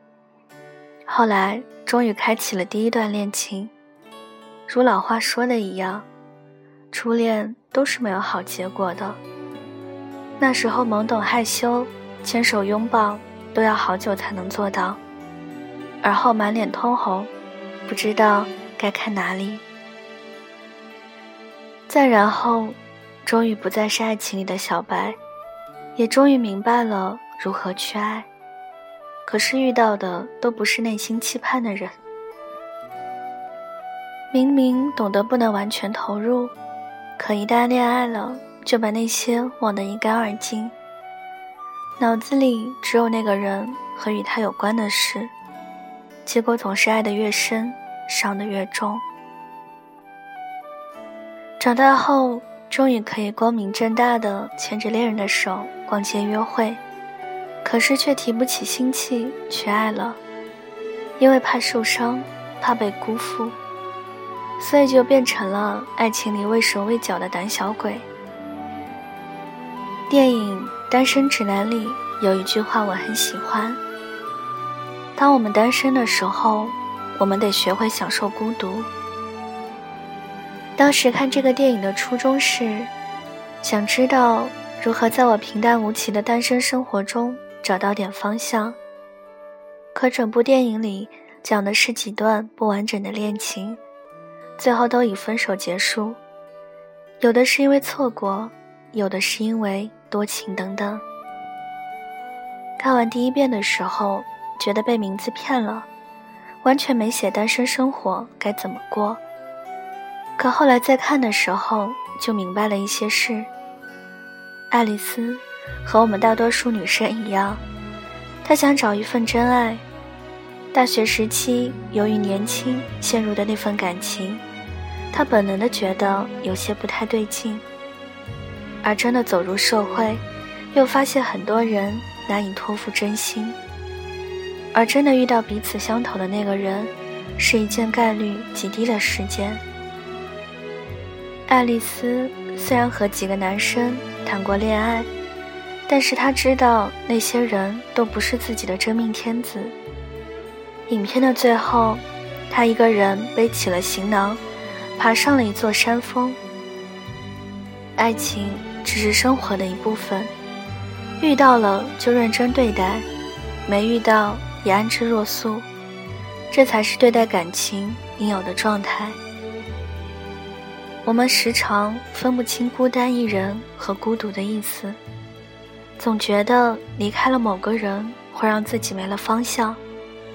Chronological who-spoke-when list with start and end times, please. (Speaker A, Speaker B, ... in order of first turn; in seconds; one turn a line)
Speaker A: 1.1-3.7
Speaker A: 4.7-6.1
Speaker A: 6.9-9.2
Speaker A: 10.4-15.0
Speaker A: 16.0-17.3
Speaker A: 17.9-19.6
Speaker A: 21.9-25.2
Speaker A: 26.0-28.3
Speaker A: 29.3-31.9
Speaker A: 34.3-36.5
Speaker A: 37.2-40.7
Speaker A: 42.0-45.3
Speaker A: 46.2-49.0
Speaker A: 51.6-56.8
Speaker A: 57.6-60.2
Speaker A: 61.2-63.6
Speaker A: 64.6-68.1
Speaker A: 70.1-73.8
Speaker A: 75.2-78.9
Speaker A: 80.8-82.9
Speaker A: 83.6-88.8
Speaker A: 89.9-93.8
Speaker A: 94.6-96.2
Speaker A: 97.2-101.0
Speaker A: 102.8-105.9
Speaker A: 106.6-109.2
Speaker A: 110.4-113.5
Speaker A: 114.7-117.6
Speaker A: 118.4-119.8
Speaker A: 120.7-124.4
Speaker A: 125.1-127.6
Speaker A: 128.8-133.6
Speaker A: 134.7-139.6
Speaker A: 141.5-145.1
Speaker A: 145.9-149.8
Speaker A: 150.9-154.4
Speaker A: 155.0-156.4
Speaker A: 158.0-160.3
Speaker A: 161.2-163.1
Speaker A: 163.7-165.7
Speaker A: 166.5-169.2
Speaker A: 171.1-175.0
Speaker A: 176.0-179.8